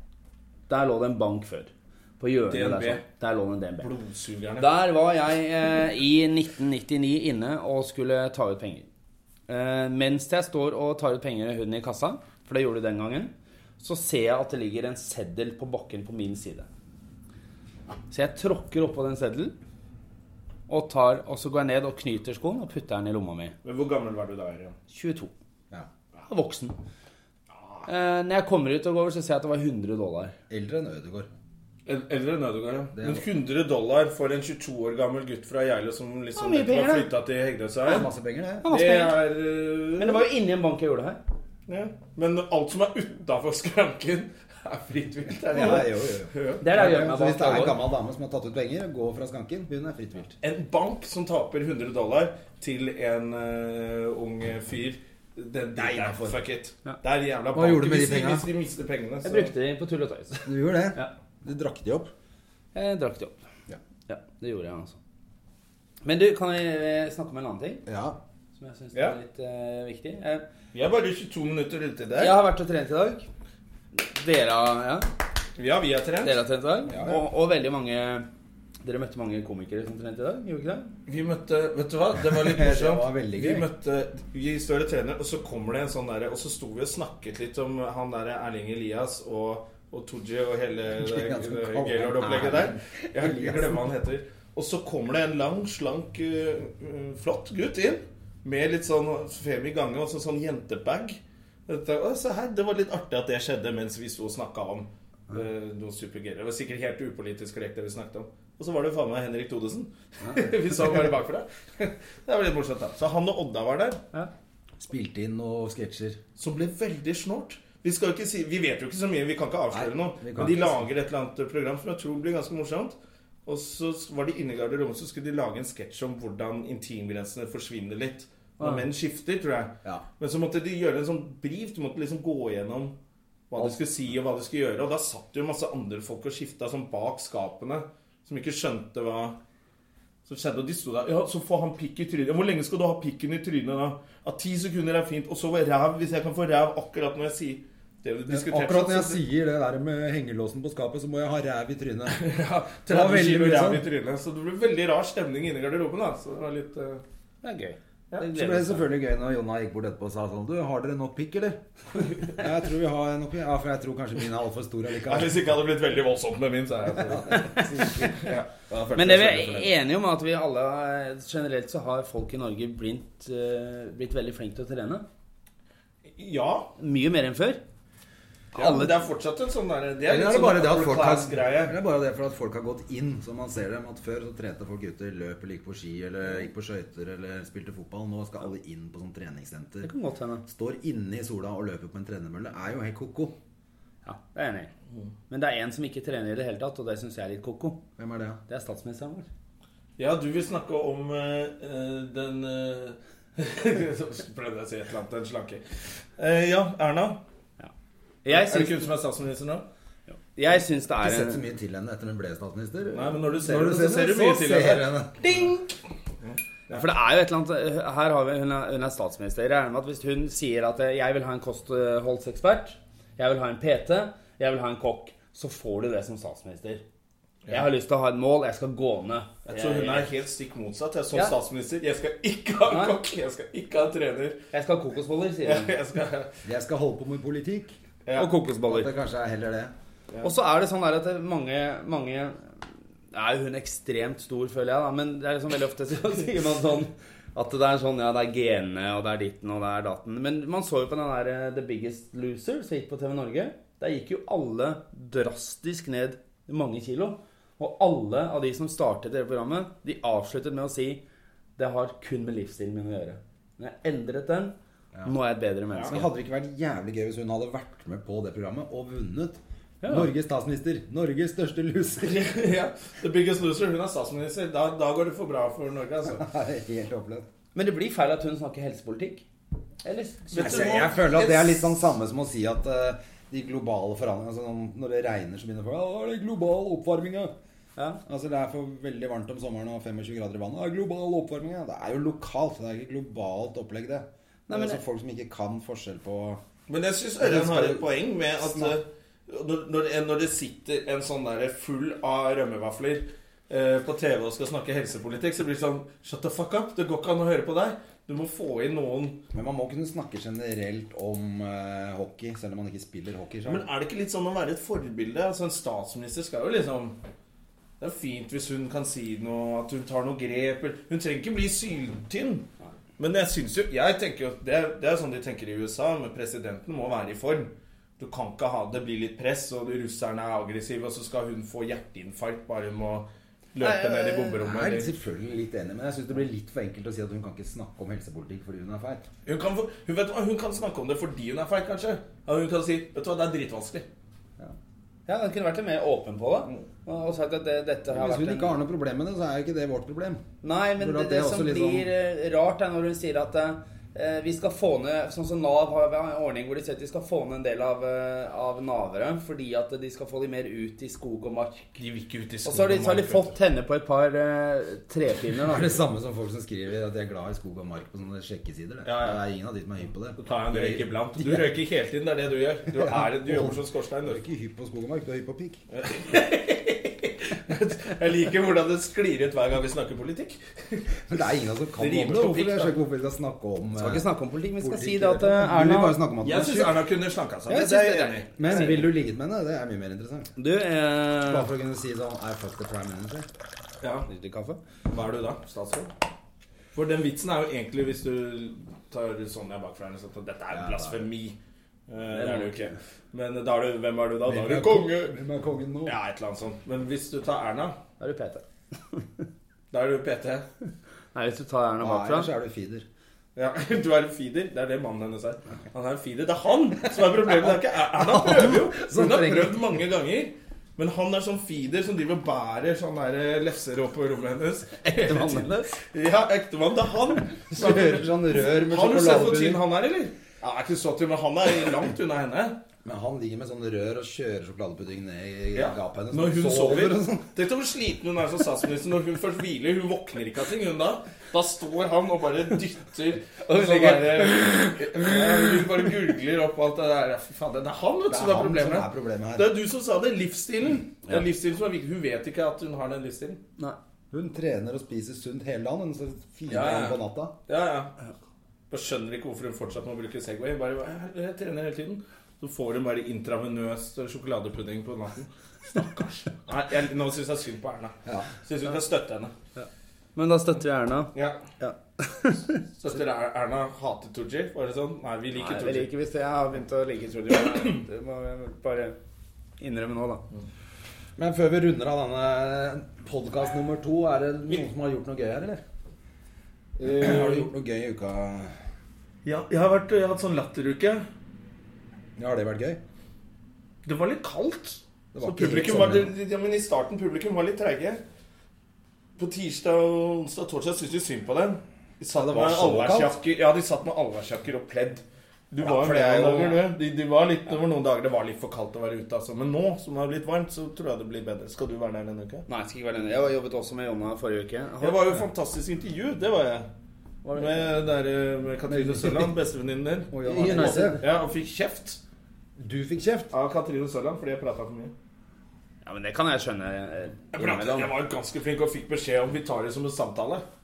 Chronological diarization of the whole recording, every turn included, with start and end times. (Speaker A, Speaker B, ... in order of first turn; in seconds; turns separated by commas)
Speaker A: 0.7-3.9, Speaker B: 2.5-3.0, Speaker B: 3.8-4.7, Speaker A: 4.6-8.9, Speaker A: 9.5-16.7, Speaker A: 18.1-19.5, Speaker A: 20.7-23.5, Speaker B: 23.6-24.8, Speaker A: 24.9-25.3, Speaker A: 26.3-26.8, Speaker A: 27.9-30.3, Speaker C: 30.5-31.3, Speaker B: 31.9-38.1, Speaker C: 32.9-33.2, Speaker A: 36.4-37.1, Speaker C: 37.8-38.6, Speaker A: 38.6-39.2, Speaker B: 38.6-40.3, Speaker A: 40.0-41.2, Speaker B: 41.7-46.6, Speaker C: 45.5-50.3, Speaker A: 46.6-47.8, Speaker B: 50.4-59.5, Speaker C: 55.8-56.3, Speaker C: 57.5-58.5, Speaker A: 59.2-61.1, Speaker C: 60.5-62.1, Speaker A: 62.7-63.4, Speaker A: 64.1-65.0, Speaker A: 66.0-67.8, Speaker C: 67.8-68.2, Speaker A: 68.6-70.5, Speaker B: 70.7-72.4, Speaker A: 72.2-73.3, Speaker A: 73.9-75.1, Speaker B: 75.6-76.4, Speaker A: 76.2-78.2, Speaker C: 76.9-77.2, Speaker A: 78.8-80.9, Speaker B: 81.1-114.0, Speaker C: 82.2-83.7, Speaker C: 90.9-93.9, Speaker C: 114.8-116.2, Speaker B: 116.4-122.9, Speaker C: 119.7-120.8, Speaker B: 123.5-132.9, Speaker A: 128.6-128.8, Speaker B: 133.5-139.4, Speaker B: 140.2-149.2, Speaker C: 148.3-152.2, Speaker B: 152.1-157.0, Speaker C: 152.9-153.8, Speaker A: 157.4-158.9, Speaker C: 158.3-161.6, Speaker C: 162.3-165.4, Speaker B: 165.0-167.6, Speaker C: 167.0-168.3, Speaker A: 167.3-167.9, Speaker B: 168.1-169.7, Speaker A: 168.9-175.0, Speaker B: 176.1-176.7, Speaker A: 176.8-177.6, Speaker A: 178.5-179.0, Speaker B: 178.5-181.7, Speaker C: 180.1-189.9, Speaker A: 189.8-190.4, Speaker C: 190.4-193.3, Speaker A: 194.0-194.7, Speaker A: 195.3-197.8, Speaker C: 198.0-198.4, Speaker A: 198.5-199.3, Speaker B: 200.0-205.6, Speaker B: 206.2-207.2, Speaker A: 208.2-208.8, Speaker B: 208.3-209.6, Speaker A: 210.3-211.4, Speaker C: 211.0-215.3, Speaker B: 212.9-216.8, Speaker A: 216.7-226.8, Speaker A: 227.5-230.1, Speaker B: 229.4-234.4, Speaker A: 232.7-233.0, Speaker A: 234.5-235.7, Speaker B: 235.4-236.3, Speaker C: 236.4-237.7, Speaker A: 238.1-238.9, Speaker C: 238.7-239.7, Speaker A: 240.2-261.0, Speaker A: 261.6-264.5, Speaker A: 265.0-266.1, Speaker C: 265.8-272.3, Speaker A: 269.8-270.1, Speaker B: 272.0-276.2, Speaker C: 276.1-277.2, Speaker A: 277.5-279.2, Speaker A: 279.8-280.9, Speaker B: 280.3-281.7, Speaker C: 280.4-287.3, Speaker C: 288.1-296.4, Speaker A: 294.5-294.8, Speaker B: 296.7-309.2, Speaker C: 297.2-297.9, Speaker C: 298.4-298.7, Speaker C: 309.3-313.7, Speaker B: 313.4-316.9, Speaker B: 317.8-322.5, Speaker B: 323.0-334.9, Speaker A: 333.6-334.4, Speaker C: 334.4-339.0, Speaker B: 339.2-343.8, Speaker A: 345.1-348.5, Speaker C: 347.9-350.2, Speaker A: 350.4-361.8, Speaker C: 350.8-351.9, Speaker B: 361.8-363.3, Speaker A: 362.4-365.8, Speaker C: 365.5-371.5, Speaker B: 368.8-369.2, Speaker B: 370.2-374.2, Speaker C: 372.7-375.6, Speaker B: 375.7-381.0, Speaker C: 381.1-384.0, Speaker B: 381.8-382.7, Speaker A: 383.8-386.0, Speaker C: 384.6-386.8, Speaker B: 386.2-388.8, Speaker A: 387.5-388.9, Speaker C: 388.4-390.3, Speaker A: 390.4-391.5, Speaker C: 391.3-393.3, Speaker B: 393.8-394.1, Speaker A: 394.1-394.6, Speaker B: 394.9-395.9, Speaker B: 396.7-401.4, Speaker C: 400.5-401.0, Speaker B: 401.9-405.2, Speaker A: 402.1-402.7, Speaker C: 404.2-405.9, Speaker B: 405.9-407.8, Speaker A: 408.0-409.1, Speaker B: 409.7-410.4, Speaker A: 411.1-412.3, Speaker C: 411.8-412.9, Speaker B: 413.4-432.6, Speaker C: 417.9-419.5, Speaker A: 424.8-425.7, Speaker C: 427.5-429.6, Speaker C: 432.8-437.3, Speaker B: 435.5-453.4, Speaker A: 443.5-444.3, Speaker C: 448.1-449.5, Speaker C: 454.1-457.3, Speaker B: 456.5-457.9, Speaker B: 458.7-469.3, Speaker A: 469.6-472.6, Speaker B: 471.1-471.4, Speaker B: 472.8-475.9, Speaker A: 475.4-479.0, Speaker A: 479.6-480.2, Speaker C: 481.2-485.6, Speaker B: 486.8-487.5, Speaker C: 486.9-488.6, Speaker B: 489.2-491.0, Speaker C: 492.2-492.8, Speaker B: 493.8-498.0, Speaker C: 495.1-496.1, Speaker B: 499.2-512.5, Speaker C: 502.1-503.1, Speaker C: 505.6-506.6, Speaker A: 512.5-515.1, Speaker B: 514.8-516.7, Speaker A: 517.2-517.6, Speaker B: 517.4-522.0, Speaker C: 518.7-519.3, Speaker C: 520.1-521.0, Speaker A: 520.2-521.0, Speaker C: 522.6-523.3, Speaker B: 523.3-524.9, Speaker A: 525.8-527.9, Speaker B: 527.3-530.4